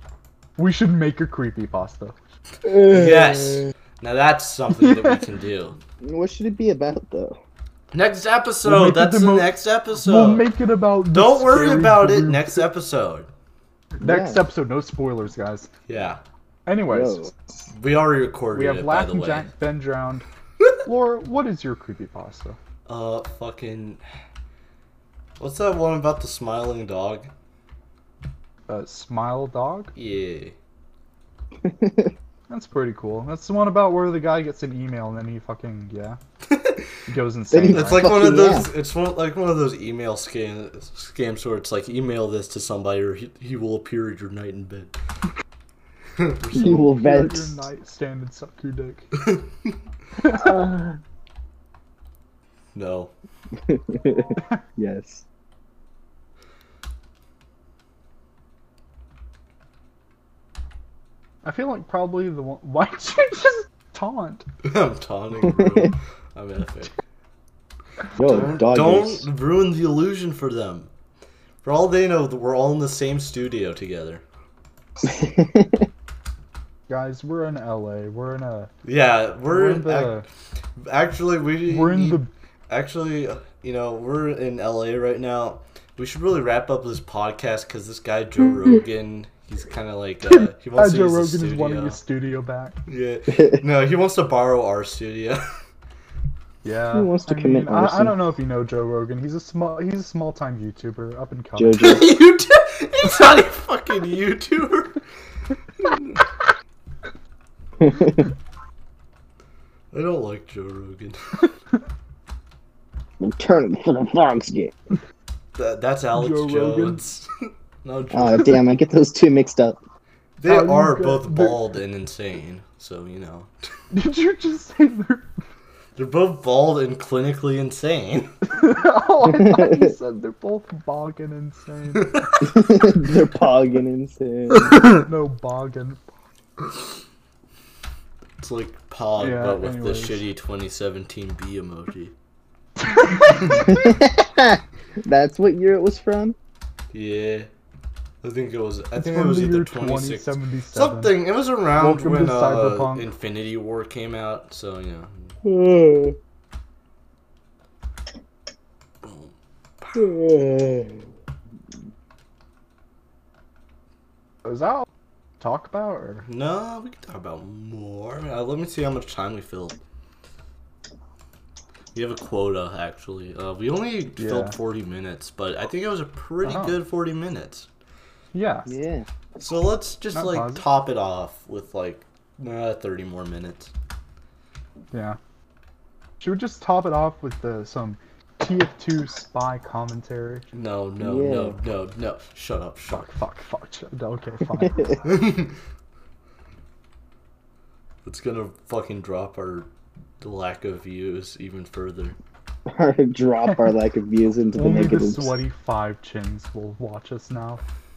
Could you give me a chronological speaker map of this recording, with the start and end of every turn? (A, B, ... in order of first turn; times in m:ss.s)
0:00.6-0:02.2 A
0:02.6-0:03.7 B
0:02.7-0:05.8 C
0:04.7-0:05.2 A
0:06.0-0:07.4 B
0:07.9-0:10.5 C
0:08.6-0:12.7 A
0:11.1-0:13.3 C
0:14.0-0:15.7 A
0:14.0-0:14.4 B
0:15.9-0:16.2 C
0:16.7-0:17.3 A
0:16.9-0:17.3 B
0:17.7-0:19.5 C
0:18.5-0:20.3 A
0:20.8-0:22.6 A
0:22.9-0:24.0 C
0:25.4-0:27.3 C
0:28.7-0:29.9 A
0:30.0-0:30.6 C
0:31.6-0:32.1 B
0:32.5-0:36.2 A
0:36.5-0:37.0 C
0:37.1-0:38.4 A
0:37.5-0:38.7 B
0:37.7-0:44.9 C
0:46.2-0:46.9 C
0:46.5-0:49.3 A
0:46.5-0:47.6 B
0:49.3-0:49.7 C
0:50.2-0:50.6 A
0:50.3-0:51.0 B
0:52.8-0:53.1 C
0:53.6-0:55.2 B
1:01.4-1:04.5 A
1:04.6-1:07.0 C
1:05.5-1:05.9 B
1:08.2-1:09.3 B
1:08.2-1:10.9 C
1:11.6-1:14.2 C
1:15.0-1:15.9 B
1:16.9-1:18.7 A
1:18.8-1:20.2 C
1:19.5-1:20.3 A
1:20.8-1:32.0 C
1:21.7-1:22.3 A
1:30.3-1:32.8 A
1:32.9-1:35.4 C
1:33.4-1:33.6 B
1:36.6-1:42.0 A
1:36.9-1:38.2 B
1:41.6-1:42.1 B
1:41.8-1:45.0 C
1:45.8-1:46.2 C
1:47.8-1:48.3 B
1:49.9-1:51.5 C
1:53.2-1:54.8 B
1:55.6-1:57.3 C
1:56.2-1:57.0 A
1:57.8-1:58.8 C
1:58.1-1:59.8 B
2:00.4-2:03.5 C
2:00.4-2:01.6 A
2:03.9-2:05.3 A
2:06.0-2:08.3 C
2:08.5-2:12.3 A
2:09.2-2:10.0 B
2:12.0-2:12.6 C
2:12.4-2:14.9 B
2:14.8-2:16.0 A
2:18.4-2:22.1 C
2:19.2-2:20.2 A
2:22.8-2:23.8 A
2:23.4-2:23.6 C
2:23.6-2:26.4 B
2:26.9-2:27.5 C
2:28.2-2:35.4 C
2:29.0-2:31.2 A
2:31.8-2:33.1 A
2:35.4-2:36.2 B
2:39.0-2:40.1 C
2:40.0-2:41.1 B
2:44.4-2:44.9 A
2:45.4-2:46.2 A
2:46.3-2:49.8 C
2:51.9-2:57.7 C
2:54.2-2:54.6 A
2:56.4-2:56.8 A
2:58.3-2:58.7 A
2:58.7-2:59.1 B
2:59.4-3:03.7 C
3:00.1-3:00.6 A
3:04.9-3:05.2 A
3:06.2-3:10.5 A
3:10.5-3:13.1 C
3:11.0-3:11.6 B
3:12.9-3:14.9 A
3:14.6-3:14.9 B
3:15.0-3:15.5 C
3:18.0-3:22.2 C
3:22.7-3:25.3 B
3:24.6-3:27.6 A